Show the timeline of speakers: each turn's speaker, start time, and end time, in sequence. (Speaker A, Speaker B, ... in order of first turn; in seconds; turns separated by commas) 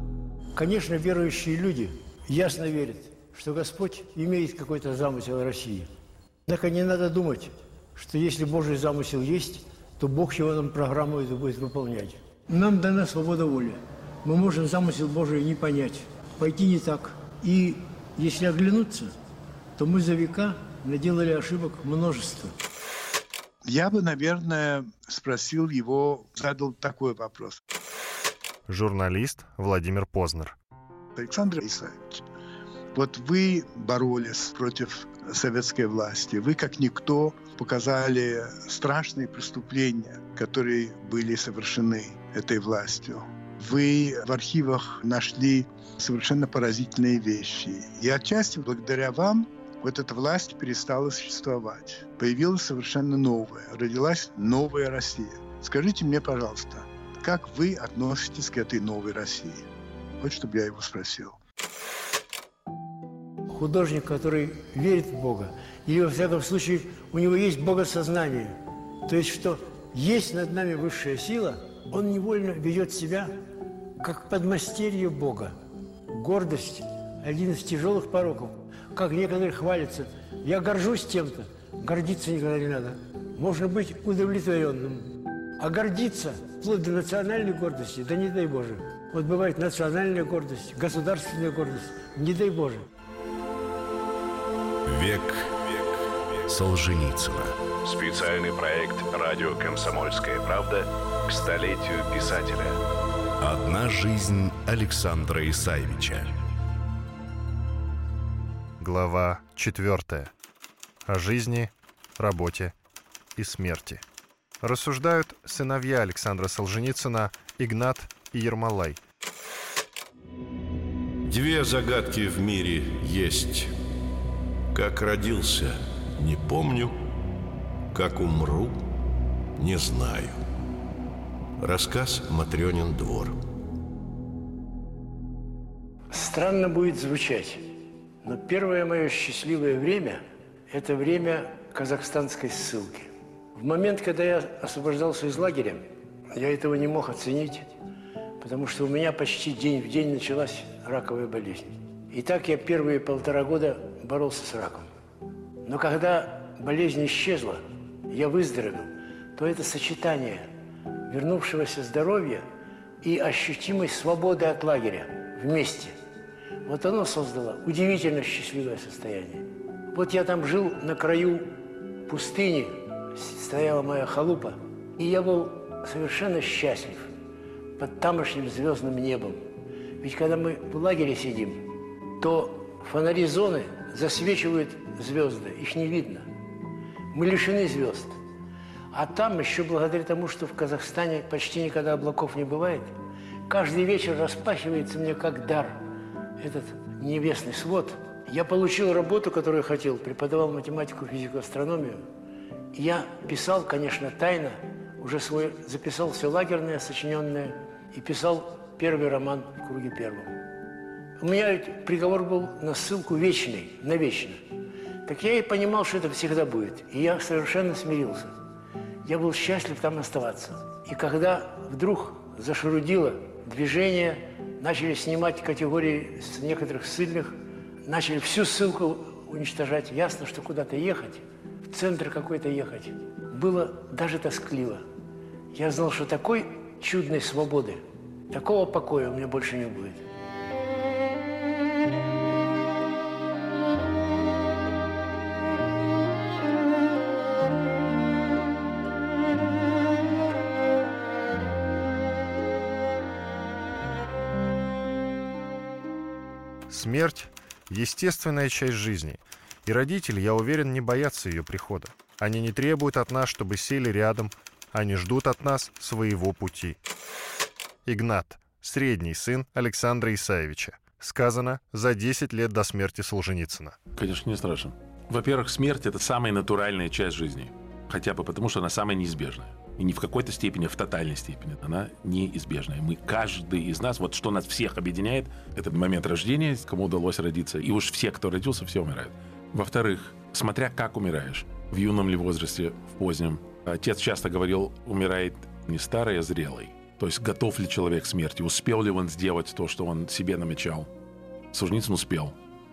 Speaker A: 0.6-5.9, Speaker A: 6.5-19.1, Speaker A: 19.8-22.5, Speaker B: 23.6-27.6, Speaker C: 28.7-30.6, Speaker B: 31.1-32.2, Speaker B: 32.9-59.6, Speaker B: 60.2-61.4, Speaker A: 63.5-73.3, Speaker A: 74.0-75.5, Speaker A: 76.1-92.9, Speaker D: 94.8-95.7, Speaker D: 96.5-97.5, Speaker E: 97.8-102.8, Speaker D: 103.4-106.3, Speaker C: 108.8-110.3, Speaker C: 111.1-112.7, Speaker C: 113.4-114.0, Speaker C: 114.6-119.0, Speaker F: 121.2-123.7, Speaker F: 124.7-127.0, Speaker F: 127.9-128.8, Speaker F: 129.6-130.4, Speaker F: 131.6-133.4, Speaker A: 136.1-137.7, Speaker A: 138.2-147.7, Speaker A: 148.4-154.9, Speaker A: 155.6-160.5, Speaker A: 161.1-162.4, Speaker A: 163.0-165.9, Speaker A: 166.6-171.5, Speaker A: 172.1-177.1, Speaker A: 177.8-179.4, Speaker A: 180.0-181.7, Speaker A: 182.2-186.3, Speaker A: 187.1-188.1, Speaker A: 188.9-192.9, Speaker A: 193.5-195.8, Speaker A: 196.4-202.0, Speaker A: 202.7-210.3, Speaker A: 211.2-214.4, Speaker A: 215.1-218.3, Speaker A: 219.0-234.8, Speaker A: 235.5-240.0, Speaker C: 256.7-266.8, Speaker C: 267.9-273.8, Speaker G: 273.9-300.9, Speaker G: 301.5-302.3